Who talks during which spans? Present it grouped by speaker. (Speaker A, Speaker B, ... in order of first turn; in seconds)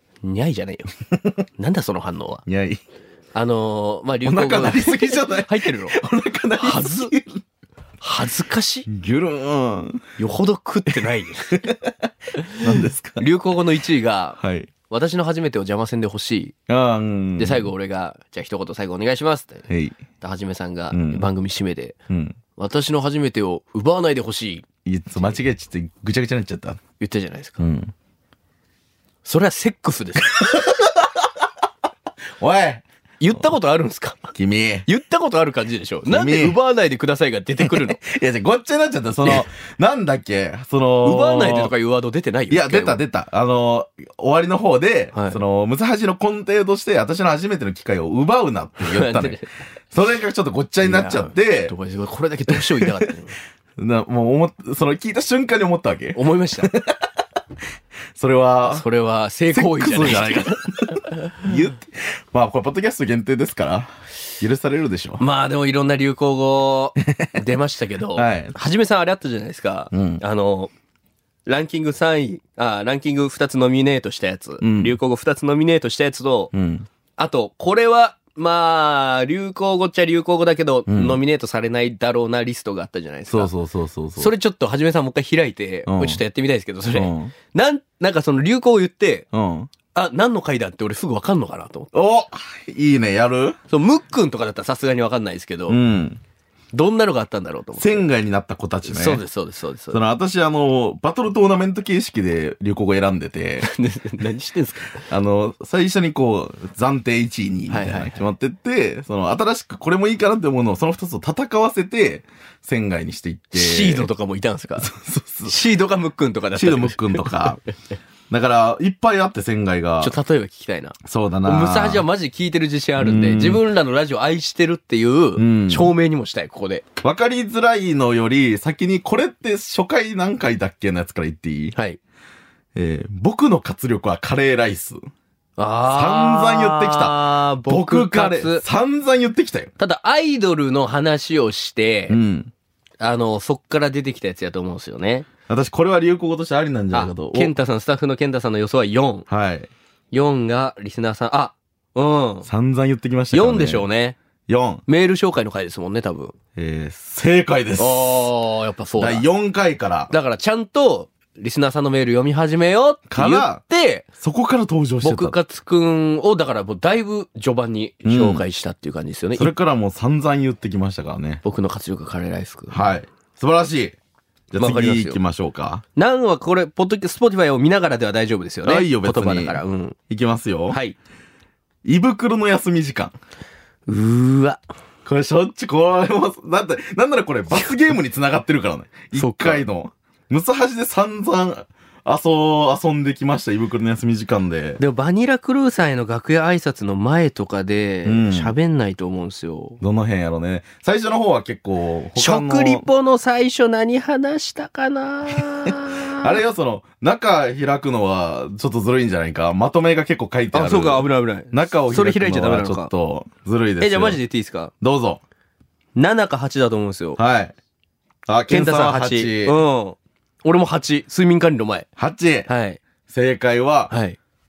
Speaker A: 0.2-0.9, 1.6-2.4, 3.3-6.0, 6.6-7.1, 8.0-8.9, 10.2-11.6, 13.2-14.4, 14.9-16.5, 17.4-19.6, 20.2-21.9, 22.6-24.6, 27.0-27.6, 29.2-30.3, 33.2-34.3, 34.9-38.0, 41.0-43.0, 45.1-45.4, 48.8-49.5, 50.8-53.4, 56.1-56.7, 58.7-61.1, 65.2-70.7, 71.5-76.5, 77.2-83.5, 84.2-89.2, 89.9-91.9, 93.7-95.8, 96.7-98.0, 98.8-100.0, 103.6-105.0, 107.7-108.2, 113.5-114.9, 115.5-117.4, 120.0-126.8, 131.7-132.0, 135.6-138.6, 139.8-142.2, 143.0-145.3, 146.9-149.2, 150.1-152.5, 153.3-154.2, 154.9-156.3, 157.8-159.2, 160.1-164.1, 165.0-169.5, 171.4-172.8, 174.6-175.2, 175.9-180.0, 180.7-180.9, 183.9-184.6, 189.1-189.6, 194.8-199.8, 202.2-206.4, 210.5-212.9, 213.8-214.7, 215.9-217.2, 218.5-221.9, 222.5-222.8, 223.9-224.2
Speaker B: 2.5-2.8, 4.2-7.4, 8.9-10.0, 12.6-13.2, 14.4-14.7, 16.7-17.7, 19.7-20.0, 20.9-21.2, 22.1-22.4, 24.8-26.8, 27.6-27.9, 30.4-31.1, 32.4-33.4, 34.3-34.9, 36.1-36.6, 37.6-41.7, 42.5-51.7, 53.8-56.9, 58.1-58.8, 59.5-65.2, 68.1-68.5, 69.9-70.2, 74.6-74.9, 76.5-76.8, 80.9-81.2, 83.3-84.3, 85.9-86.2, 86.9-87.3, 89.3-89.7, 91.9-93.6, 95.7-96.2, 97.8-99.2, 99.9-103.7, 105.0-114.1, 114.8-115.5, 116.5-117.6, 118.3-120.1, 121.0-122.0, 123.0-123.6, 125.4-125.9, 127.0-131.7, 132.7-135.0, 135.9-139.7, 142.1-142.5, 145.5-147.5, 149.3-149.7, 152.4-153.9, 154.5-154.8, 156.6-158.3, 159.0-160.1, 163.1-163.6, 164.2-165.4, 168.0-168.4, 169.3-171.4, 172.7-173.9, 174.5-175.8, 178.6-180.8, 181.8-183.1, 185.0-194.8, 198.0-198.5, 199.8-202.8, 206.1-214.2, 214.8-215.2, 217.2-217.5, 218.3-219.6, 222.0-222.5, 223.1-223.9